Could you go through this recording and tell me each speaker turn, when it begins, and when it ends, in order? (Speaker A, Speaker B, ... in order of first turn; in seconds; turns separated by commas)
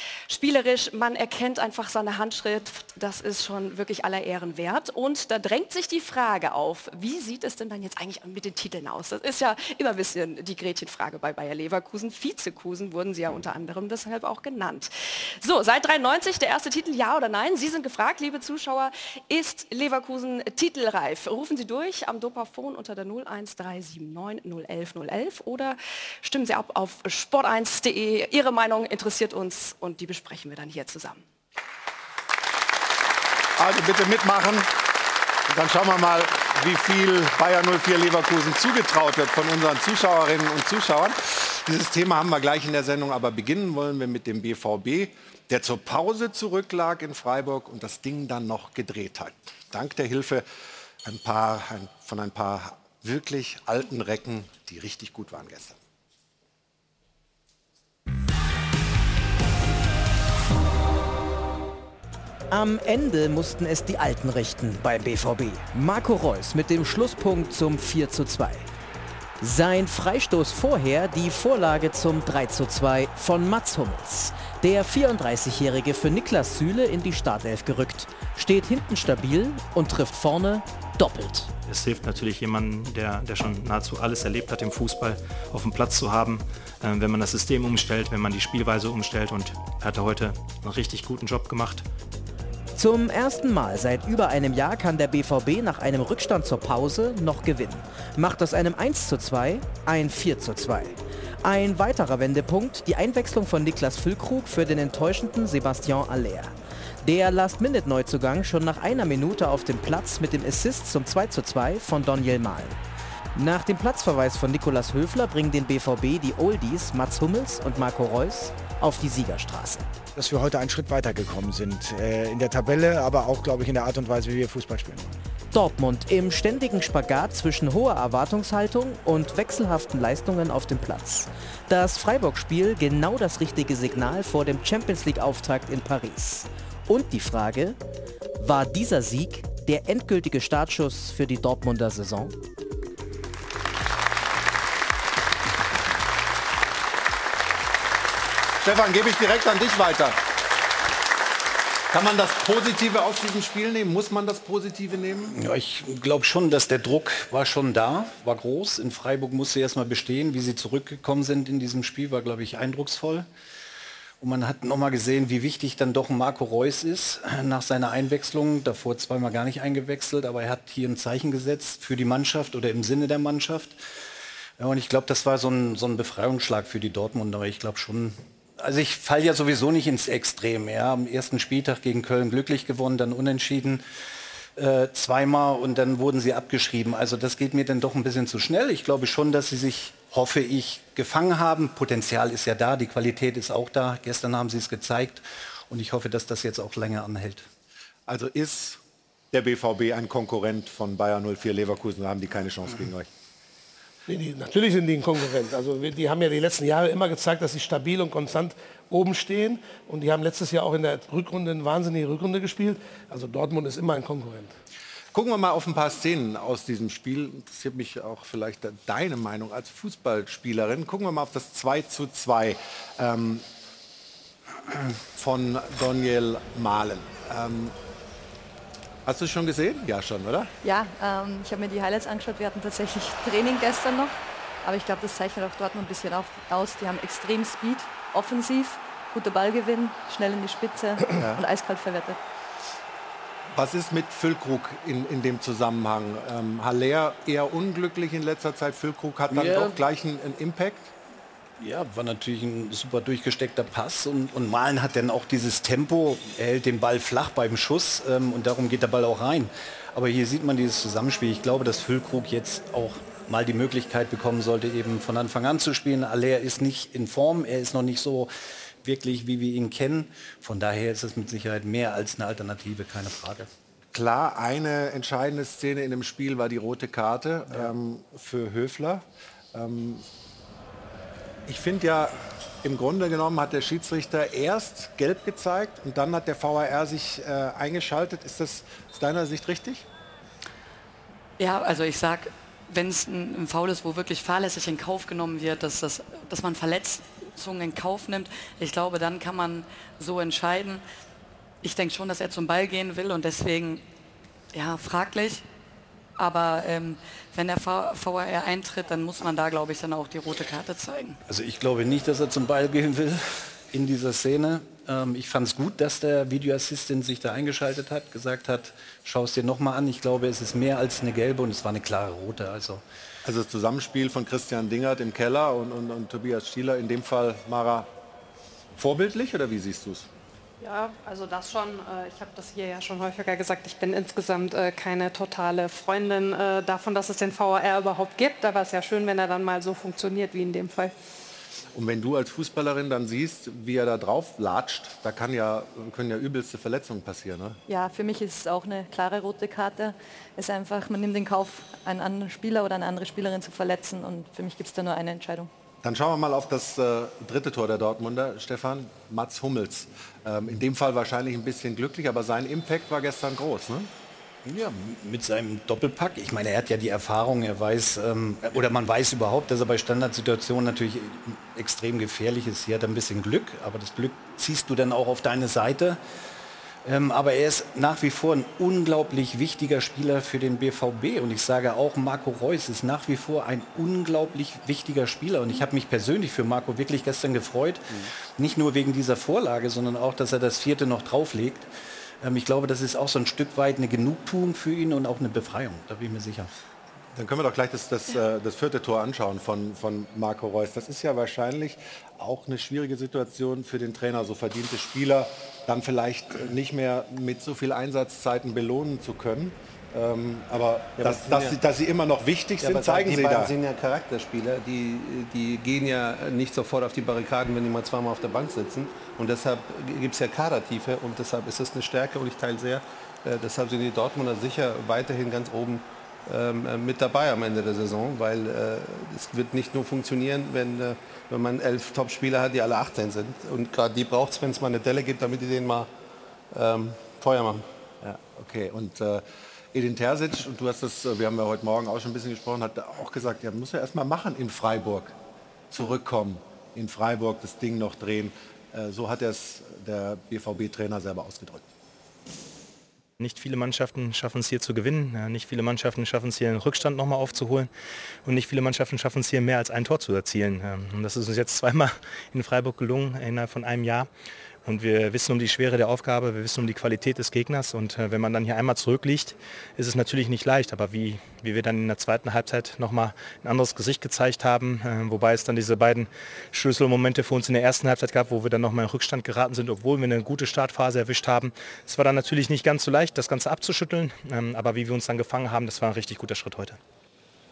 Speaker A: 0.3-31.2, Speaker B: 33.6-34.7, Speaker B: 35.5-50.5, Speaker B: 51.0-55.8, Speaker C: 62.5-68.7, Speaker C: 69.4-81.5, Speaker D: 81.6-91.8, Speaker C: 92.8-112.8, Speaker C: 113.3-119.9, Speaker E: 120.1-125.2, Speaker C: 125.5-137.8, Speaker C: 138.4-142.3, Speaker B: 148.6-150.2, Speaker B: 151.9-155.3, Speaker F: 155.3-163.3, Speaker F: 164.2-173.8, Speaker F: 174.6-183.8, Speaker F: 184.6-197.5, Speaker B: 198.1-198.8, Speaker B: 199.3-203.1, Speaker G: 204.1-214.5, Speaker B: 215.1-223.4, Speaker B: 225.0-227.7, Speaker B: 229.0-230.5, Speaker H: 230.6-242.2, Speaker B: 241.2-241.4, Speaker B: 243.5-250.9, Speaker F: 249.3-249.8, Speaker F: 251.6-268.3, Speaker F: 268.8-273.5, Speaker B: 273.9-280.0, Speaker B: 281.4-289.8, Speaker I: 291.4-300.8, Speaker I: 301.6-303.8, Speaker I: 304.5-305.4, Speaker I: 306.2-311.2, Speaker F: 311.3-322.8, Speaker B: 323.2-327.9, Speaker B: 328.8-330.1, Speaker J: 330.6-340.9, Speaker B: 341.7-347.6, Speaker H: 347.7-355.5, Speaker B: 355.8-363.9, Speaker F: 364.4-376.0, Speaker F: 376.8-391.7, Speaker F: 392.2-396.5, Speaker B: 397.1-413.5, Speaker K: 411.0-411.5, Speaker K: 412.6-435.9, Speaker K: 436.5-437.6, Speaker B: 438.0-445.1, Speaker B: 445.7-451.6, Speaker D: 453.2-457.7, Speaker D: 458.2-464.1, Speaker D: 464.6-486.8